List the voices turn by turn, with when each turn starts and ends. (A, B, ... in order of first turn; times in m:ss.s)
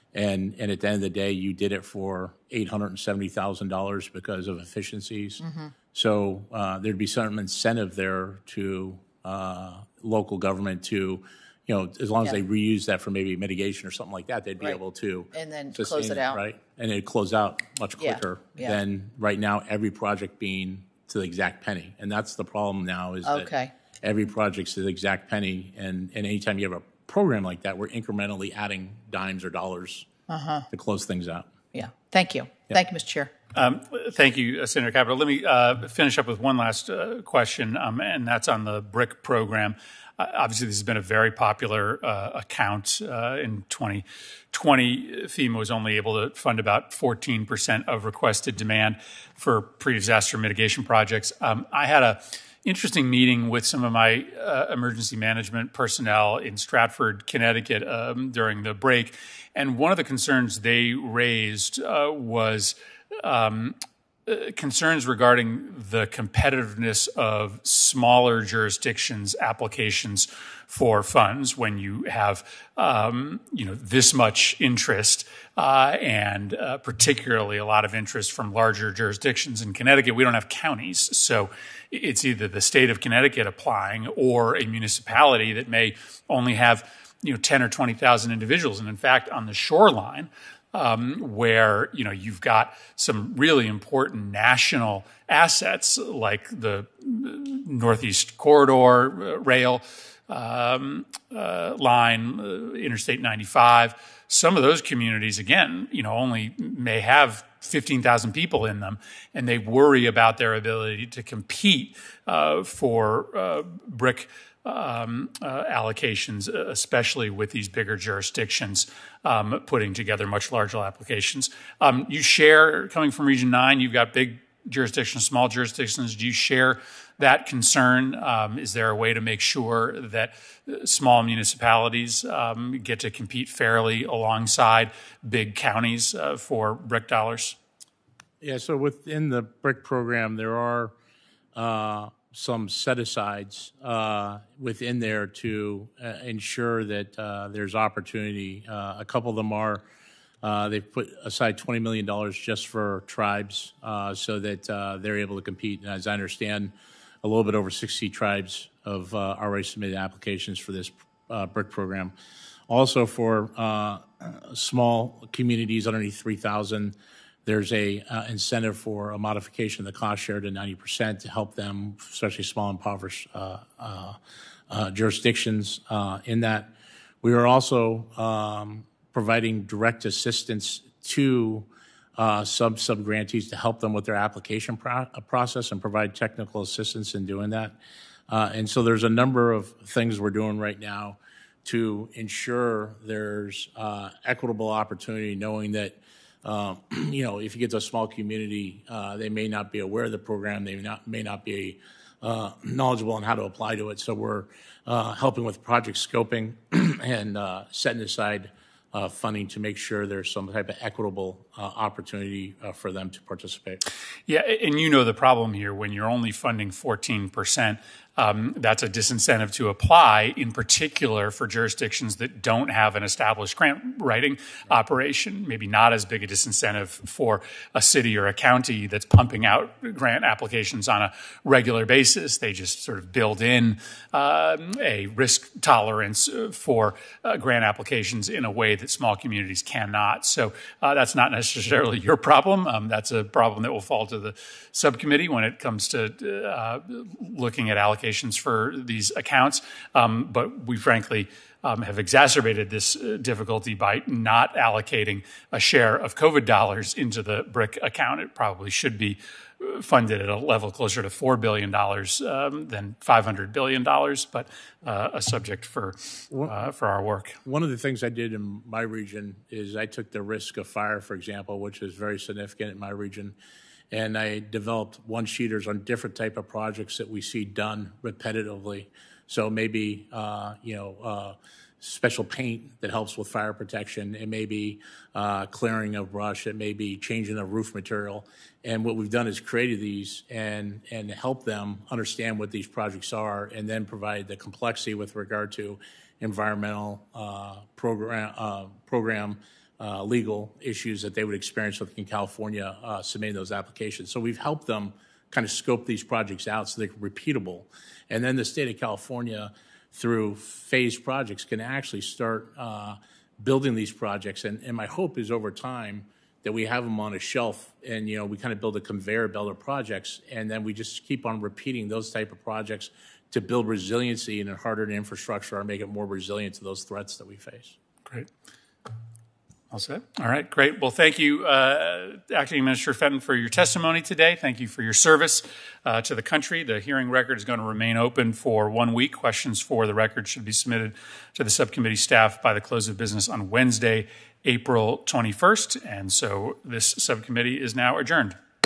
0:00.1-0:05.4 A
0:05.4-0:05.8 B
0:05.9-0:23.5 A
0:15.3-0:16.4 B
0:18.0-0:18.8 B
0:23.2-0:23.7 B
0:24.0-0:30.1 A
0:30.3-0:30.7 B
0:30.7-0:31.5 A
0:31.7-0:33.3 B
0:33.6-2:17.6 C
2:18.4-2:20.9 A
2:21.6-2:29.8 A
2:30.4-2:42.1 A
2:42.7-2:54.2 A
2:54.7-3:07.8 A
3:08.3-3:33.8 A
3:34.3-4:27.4 C
4:27.4-4:33.4 A
4:33.9-5:27.8 A
5:29.7-5:48.4 C